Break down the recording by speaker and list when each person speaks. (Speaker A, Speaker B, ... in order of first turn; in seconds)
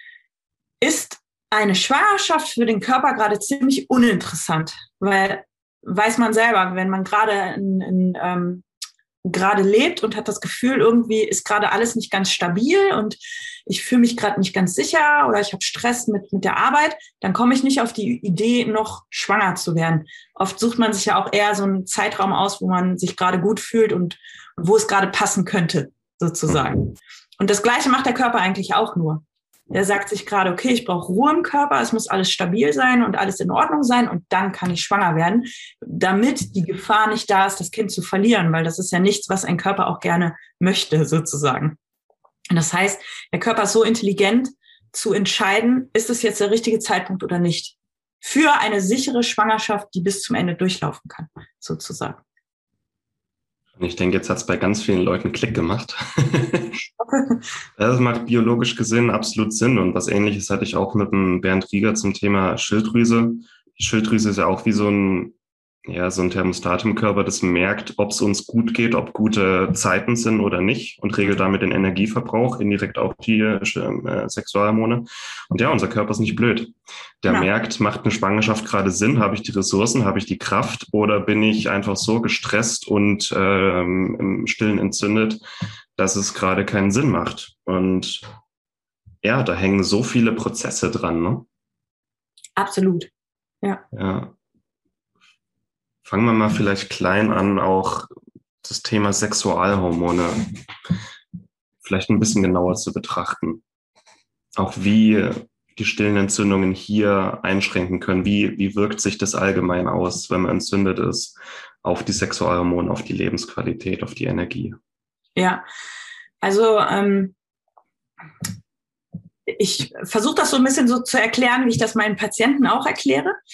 Speaker A: 0.8-8.6, 9.2-41.8, 42.5-52.2, 57.0-57.4, 92.5-93.1, 115.3-115.6, 116.4-117.3, 119.5-123.4
Speaker B: 53.8-56.8, 57.8-65.3, 65.9-85.4, 86.0-88.2, 89.2-91.5, 93.9-94.3, 96.0-98.1, 98.6-100.4, 101.8-103.6, 104.6-114.8